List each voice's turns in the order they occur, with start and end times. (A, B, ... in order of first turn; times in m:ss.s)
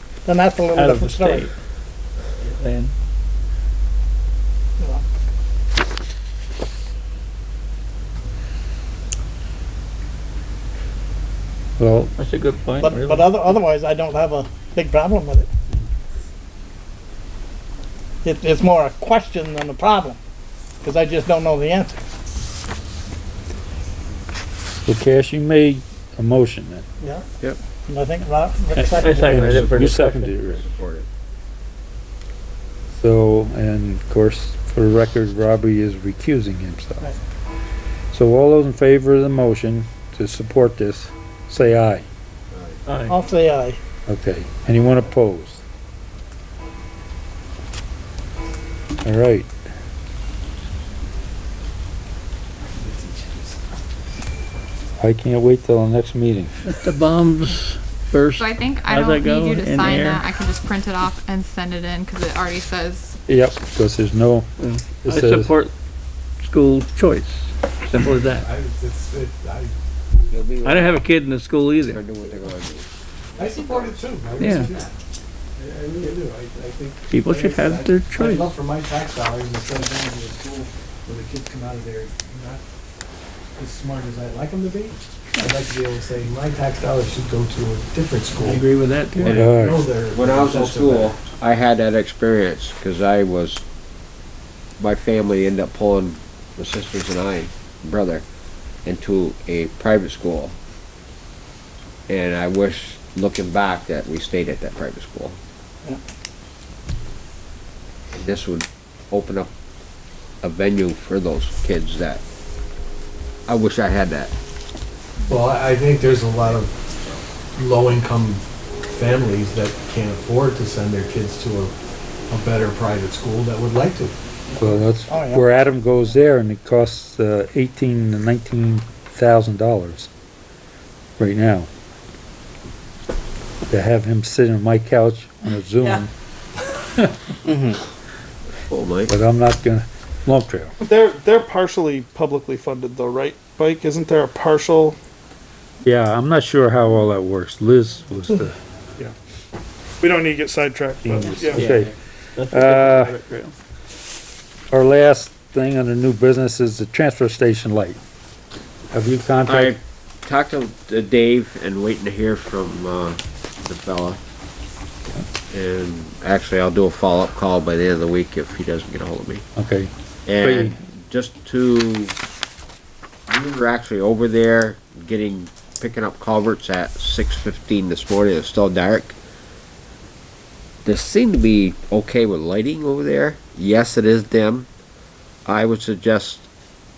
0:00.2-0:01.5 A
0:00.7-0:01.5 B
0:02.4-0:02.9 B
0:04.8-0:05.0 A
0:11.8-0:12.1 C
0:12.2-0:13.5 B
0:12.8-0:15.5 A
0:18.2-0:20.2 A
0:20.8-0:22.0 A
0:24.9-0:26.8 C
0:27.9-0:29.7 A
0:28.8-0:30.6 C
0:28.9-0:30.3 B
0:29.3-0:29.9 D
0:30.4-0:31.1 D
0:33.0-0:37.1 C
0:38.1-0:42.0 C
0:42.5-0:42.8 D
0:42.9-0:43.2 B
0:43.1-0:43.8 A
0:44.1-0:45.6 C
0:49.0-0:49.5 C
0:52.8-0:53.6 E
0:55.0-0:56.5 C
0:56.6-1:00.2 B
0:58.4-1:03.2 F
1:03.3-1:04.5 C
1:04.6-1:05.7 B
1:05.0-1:05.5 C
1:06.4-1:08.5 B
1:08.0-1:09.7 E
1:10.3-1:11.0 D
1:10.6-1:12.0 B
1:11.8-1:12.9 D
1:13.4-1:14.9 E
1:13.4-1:14.0 D
1:14.4-1:14.7 B
1:15.6-1:22.6 E
1:17.1-1:18.5 B
1:23.6-1:28.7 E
1:28.4-1:29.5 B
1:29.2-1:29.6 D
1:29.3-1:29.8 C
1:29.4-1:31.2 E
1:30.1-1:33.6 D
1:34.8-1:38.2 D
1:38.8-1:40.6 D
1:42.1-1:45.4 D
1:48.1-1:49.5 D
1:50.4-1:52.2 D
1:53.5-1:54.3 D
1:55.3-1:56.7 E
1:57.6-2:01.7 E
2:02.3-2:04.2 E
2:04.6-2:10.1 C
2:05.1-2:05.5 A
2:11.2-2:11.7 C
2:13.7-2:16.1 C
2:18.7-2:19.1 D
2:19.1-2:20.7 C
2:20.9-2:25.0 G
2:25.8-2:28.6 C
2:30.0-2:31.6 G
2:31.0-2:31.9 C
2:31.2-2:33.6 B
2:32.5-2:33.2 C
2:34.7-2:38.0 C
2:38.9-2:39.8 C
2:39.5-2:44.2 D
2:45.5-2:49.4 D
2:49.6-2:50.7 C
2:50.3-2:52.2 D
2:53.3-2:59.2 D
3:00.8-3:04.7 D
3:05.5-3:06.5 D